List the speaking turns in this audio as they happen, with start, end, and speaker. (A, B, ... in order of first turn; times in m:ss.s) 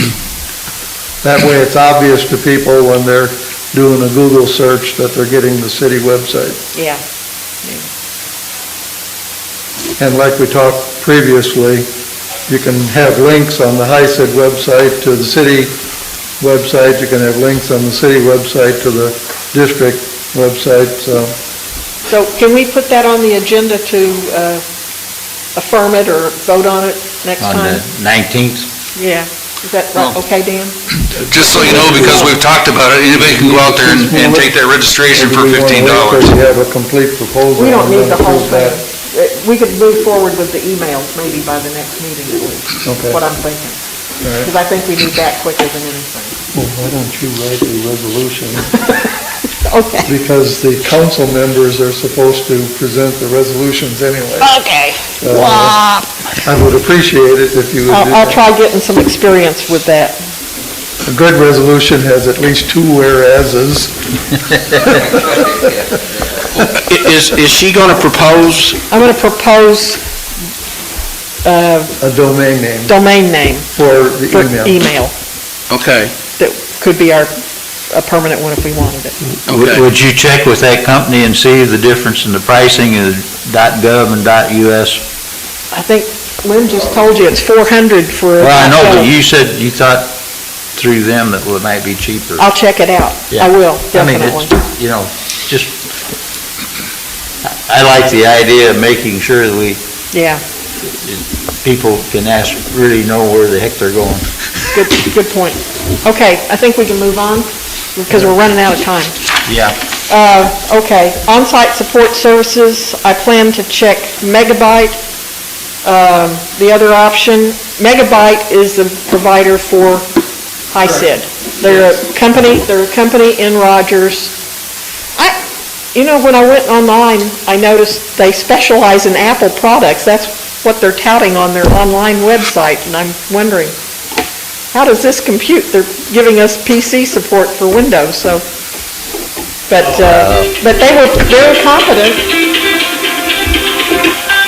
0:01.2-0:06.6 A
0:06.7-0:07.0 B
0:07.6-0:07.9 B
0:10.0-0:11.9 A
0:12.5-0:15.7 A
0:16.4-0:21.3 A
0:22.1-0:24.6 B
0:25.5-0:27.8 B
0:27.4-0:28.7 C
0:29.0-0:30.8 B
0:31.1-0:32.4 A
0:31.2-0:36.3 D
0:31.5-0:32.3 B
0:33.2-0:34.6 A
0:35.1-0:38.8 A
0:37.6-0:43.8 B
0:42.8-0:43.2 A
0:44.2-0:44.5 A
0:44.4-0:46.4 B
0:46.5-0:48.8 A
0:48.8-0:50.1 B
0:50.0-0:54.5 A
0:54.4-0:56.2 B
0:55.2-0:55.8 A
0:56.4-0:58.4 A
0:57.9-1:00.2 B
1:01.0-1:03.9 A
1:04.8-1:05.5 A
1:06.6-1:08.8 E
1:08.9-1:10.0 B
1:11.4-1:12.0 B
1:12.0-1:12.9 A
1:12.8-1:13.7 B
1:13.7-1:14.8 A
1:14.3-1:15.1 B
1:15.7-1:16.1 E
1:16.4-1:17.3 B
1:17.9-1:19.2 B
1:19.5-1:25.0 C
1:19.5-1:19.8 E
1:25.7-1:29.1 B
1:28.4-1:30.1 C
1:30.7-1:32.5 C
1:32.4-1:34.5 B
1:33.3-1:35.9 C
1:37.4-1:39.8 C
1:40.1-1:40.4 B
1:40.8-1:44.3 C
1:44.7-1:49.1 B
1:49.4-1:49.8 C
1:50.1-1:55.0 B
1:55.8-2:00.0 B
2:00.7-2:04.3 B
2:05.9-2:13.7 B
2:14.7-2:18.4 B
2:19.7-2:22.3 B
2:19.9-2:20.5 C